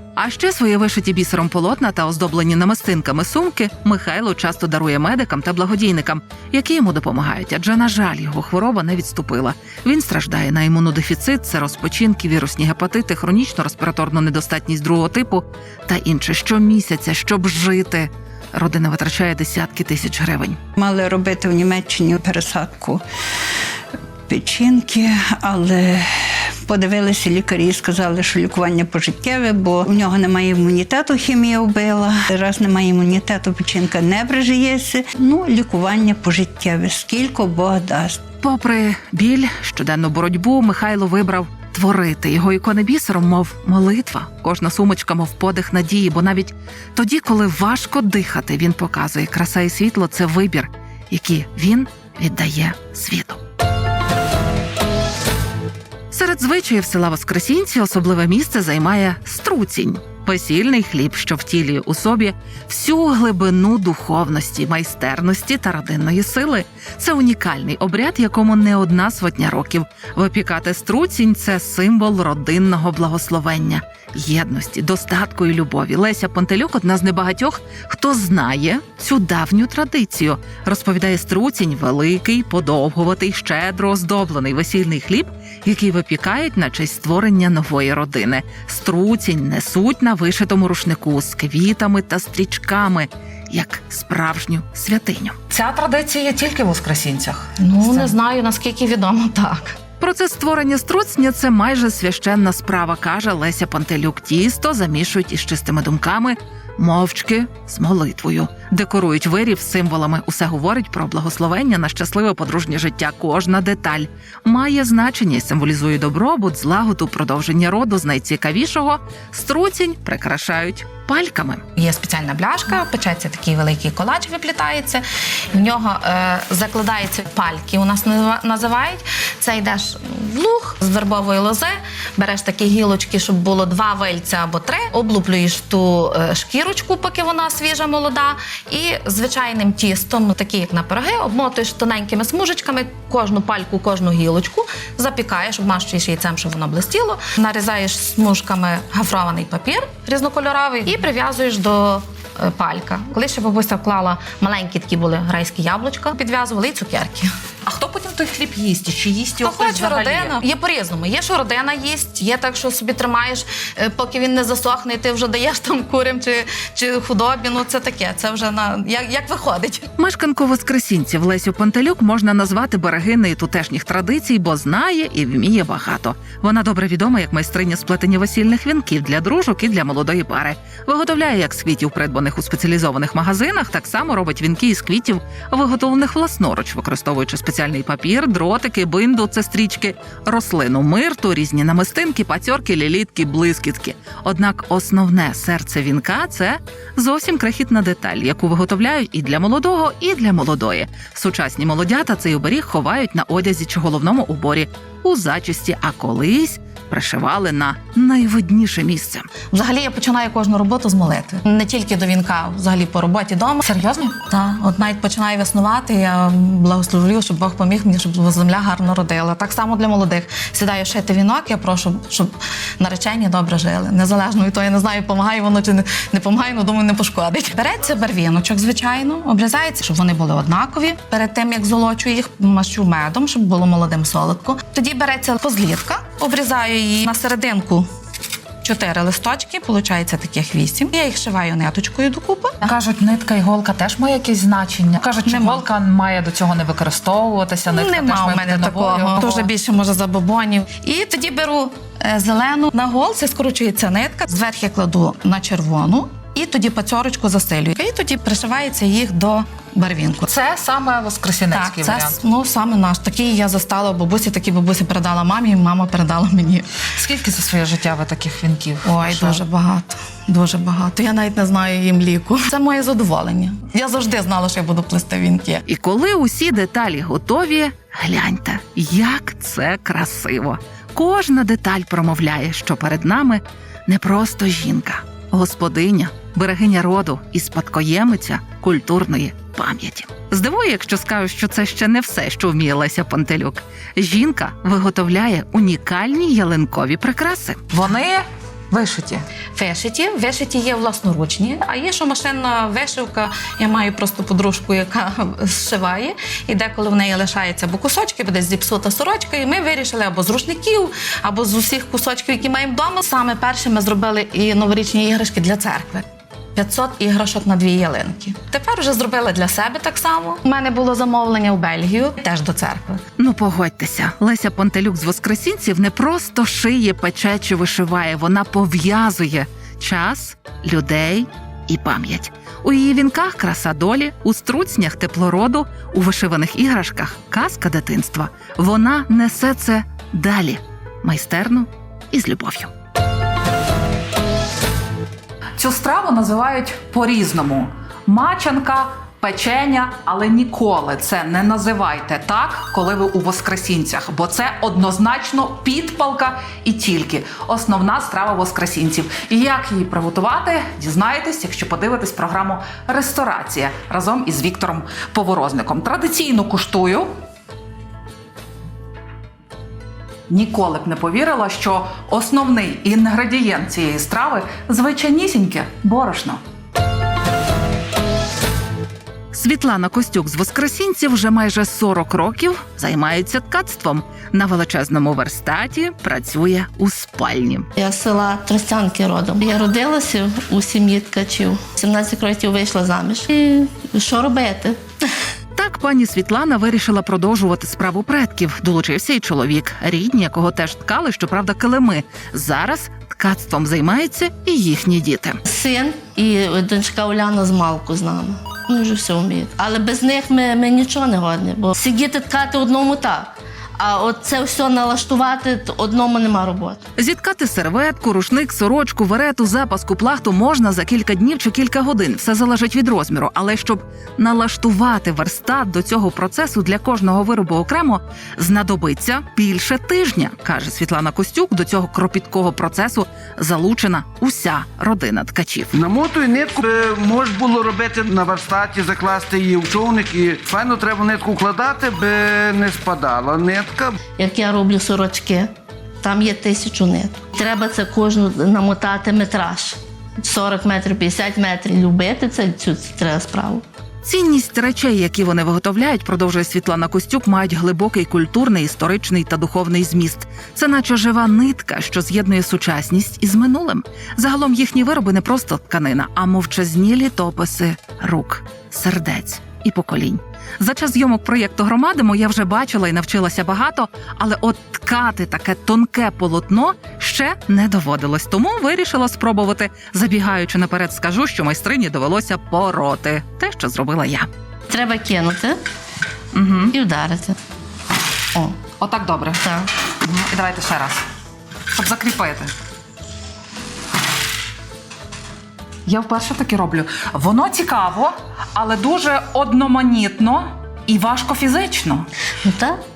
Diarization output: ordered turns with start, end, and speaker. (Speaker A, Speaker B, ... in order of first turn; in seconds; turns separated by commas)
Speaker A: 0.2-20.6, Speaker B: 20.8-23.0, Speaker B: 24.3-38.2, Speaker A: 38.4-53.4, Speaker A: 56.1-95.4, Speaker C: 95.5-98.1, Speaker D: 97.6-99.8, Speaker A: 100.0-121.6, Speaker D: 121.8-157.3, Speaker C: 157.7-160.4, Speaker D: 159.4-169.9, Speaker A: 170.0-209.2, Speaker D: 209.5-213.6, Speaker C: 213.6-214.1, Speaker D: 214.3-237.9, Speaker D: 238.6-242.7, Speaker C: 242.6-249.5, Speaker D: 245.2-245.7, Speaker D: 247.7-260.3, Speaker C: 260.3-262.2, Speaker D: 261.5-266.7, Speaker C: 266.9-269.4, Speaker D: 268.8-275.6, Speaker A: 275.7-297.6, Speaker C: 297.7-299.2, Speaker D: 299.6-316.0, Speaker D: 316.6-323.0, Speaker A: 323.2-342.7, Speaker C: 345.6-367.1, Speaker C: 370.3-376.4, Speaker A: 379.3-387.7, Speaker E: 387.8-394.8, Speaker A: 395.6-405.4, Speaker E: 405.5-416.8, Speaker A: 417.0-435.7, Speaker F: 435.7-443.9, Speaker E: 444.2-445.5, Speaker E: 446.0-453.6, Speaker A: 454.1-484.3, Speaker E: 484.7-485.6, Speaker C: 486.3-486.7, Speaker E: 486.7-487.4, Speaker C: 488.7-489.5, Speaker C: 490.0-491.0, Speaker C: 491.7-492.5, Speaker C: 495.9-502.1, Speaker E: 502.4-502.8